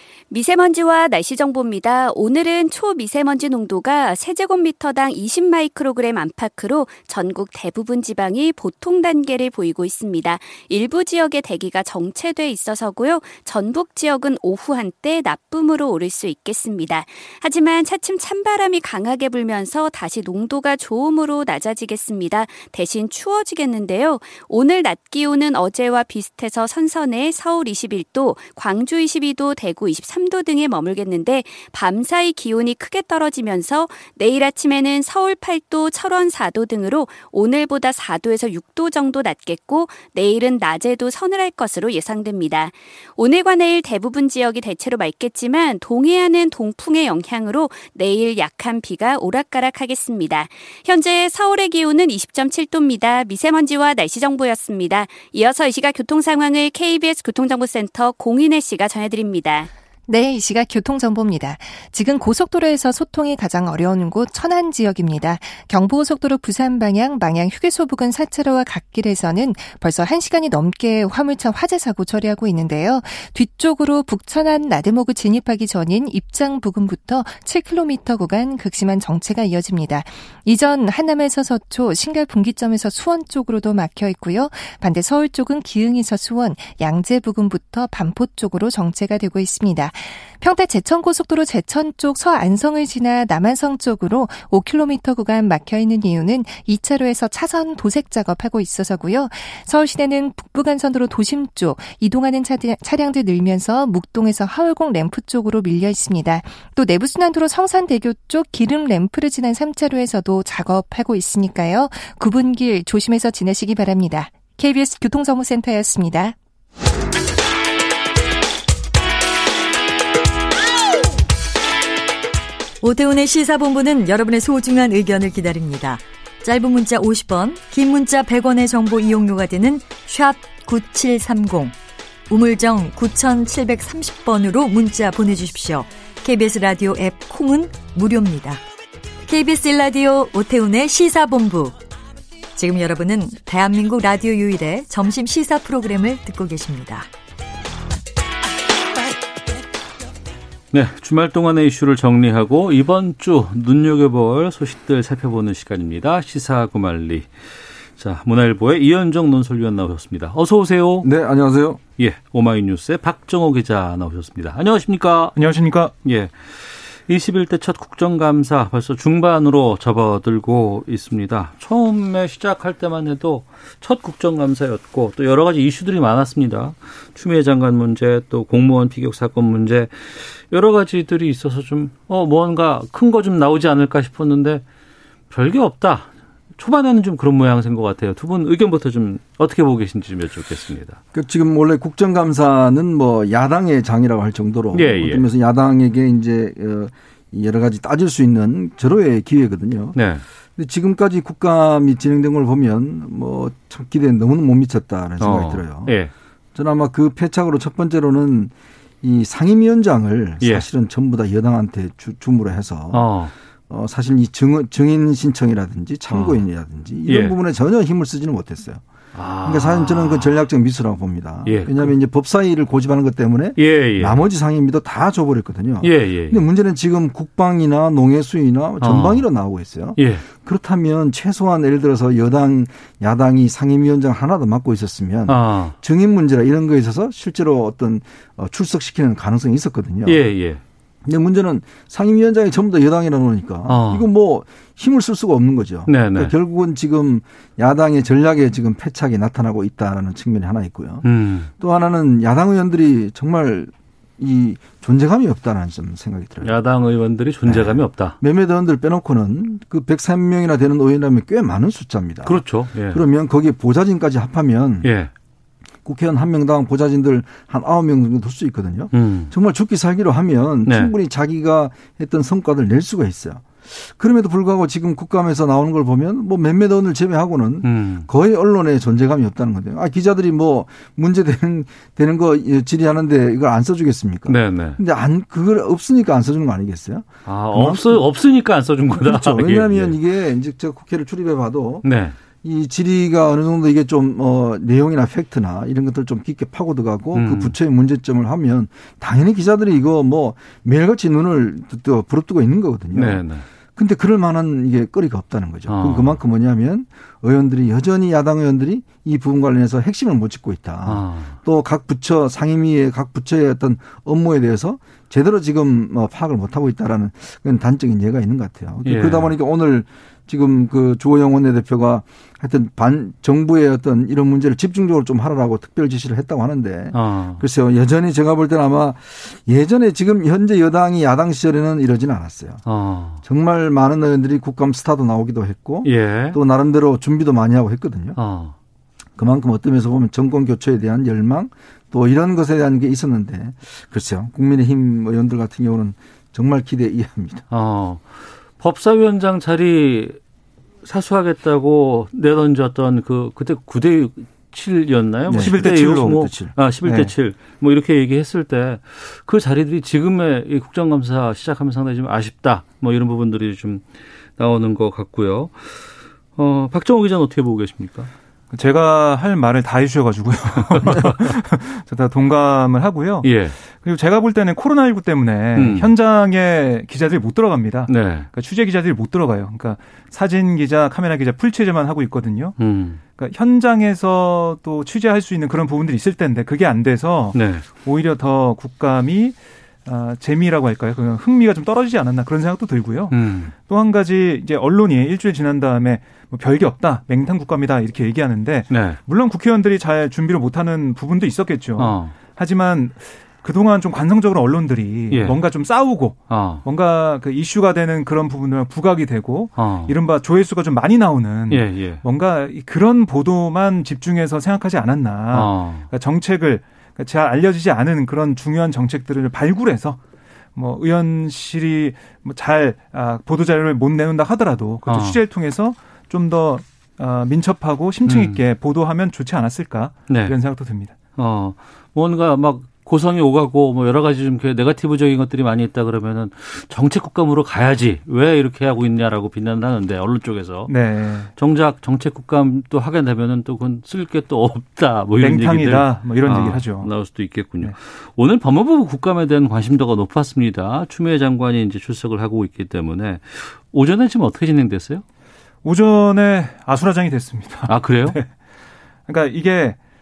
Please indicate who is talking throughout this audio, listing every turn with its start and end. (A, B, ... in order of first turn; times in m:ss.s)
0:00.3-0:59.7 A
1:00.1-1:56.4 B
2:02.8-2:11.7 C
2:12.3-2:18.6 C
2:19.3-2:21.7 C
2:22.6-2:27.1 C
2:30.7-2:37.3 D
2:38.0-2:41.1 D
2:41.0-2:41.8 E
2:42.0-2:45.4 D
2:45.4-2:45.9 F
2:46.0-3:04.6 D
3:05.3-3:11.0 D
3:11.1-3:20.0 E
3:14.7-3:15.3 D
3:20.0-3:20.2 D
3:20.6-3:26.0 E
3:25.2-3:26.1 D
3:26.6-3:33.1 E
3:30.4-3:30.7 D
3:32.9-3:33.3 D
3:33.7-3:38.8 E
3:36.1-3:36.4 D
3:37.1-3:37.4 D
3:39.1-3:40.4 D
3:39.4-4:00.2 E
3:41.4-3:42.0 D
3:43.6-3:44.2 D
3:45.8-3:46.5 D
3:48.8-3:49.3 D
3:50.0-3:50.3 D
3:55.3-3:55.8 D
4:00.0-4:00.6 D
4:01.1-4:16.5 E
4:03.7-4:04.1 D
4:05.9-4:06.3 D
4:11.0-4:11.5 D
4:16.4-4:18.2 D
4:17.5-4:24.9 E
4:22.2-4:23.0 D
4:24.8-4:25.1 D
4:25.8-4:48.1 E
4:28.9-4:29.3 D
4:30.7-4:30.9 D
4:37.6-4:38.1 D
4:44.3-4:44.8 D
4:47.2-4:50.0 D
4:48.9-4:51.9 E
4:51.8-4:52.2 D
4:52.4-5:03.2 E
4:57.1-4:57.6 D
5:02.9-5:03.4 D
5:03.8-5:32.6 E
5:05.7-5:06.2 D
5:10.8-5:11.4 D
5:18.8-5:19.4 D
5:26.9-5:27.4 D
5:32.6-5:33.2 D
5:33.2-5:38.2 E
5:35.8-5:36.4 D
5:38.2-5:38.5 D
5:39.2-5:47.4 E
5:47.5-5:50.2 D
5:50.8-6:08.1 D
5:55.3-5:56.5 E
5:55.3-5:56.2 F
5:56.8-5:57.1 F
6:08.5-6:22.6 F
6:10.7-6:11.1 D
6:13.2-6:13.6 D
6:15.6-6:15.9 D
6:17.9-6:18.3 D
6:22.6-6:23.0 D
6:23.2-7:00.0 F
6:27.3-6:27.7 D
6:33.1-6:33.5 D
6:38.7-6:39.0 D
6:41.8-6:42.2 D
6:45.1-6:45.4 D
6:46.3-6:46.6 D
6:49.6-6:49.9 D
6:51.5-6:52.0 D
6:55.3-6:55.9 D
7:00.6-7:11.0 F
7:04.9-7:05.2 D
7:08.0-7:08.4 D
7:10.1-7:10.4 D
7:11.2-7:20.7 D
7:20.7-7:21.3 F
7:21.4-7:35.0 D
7:25.2-7:26.9 F
7:35.6-7:38.3 F
7:37.7-7:38.2 D
7:39.1-7:39.8 F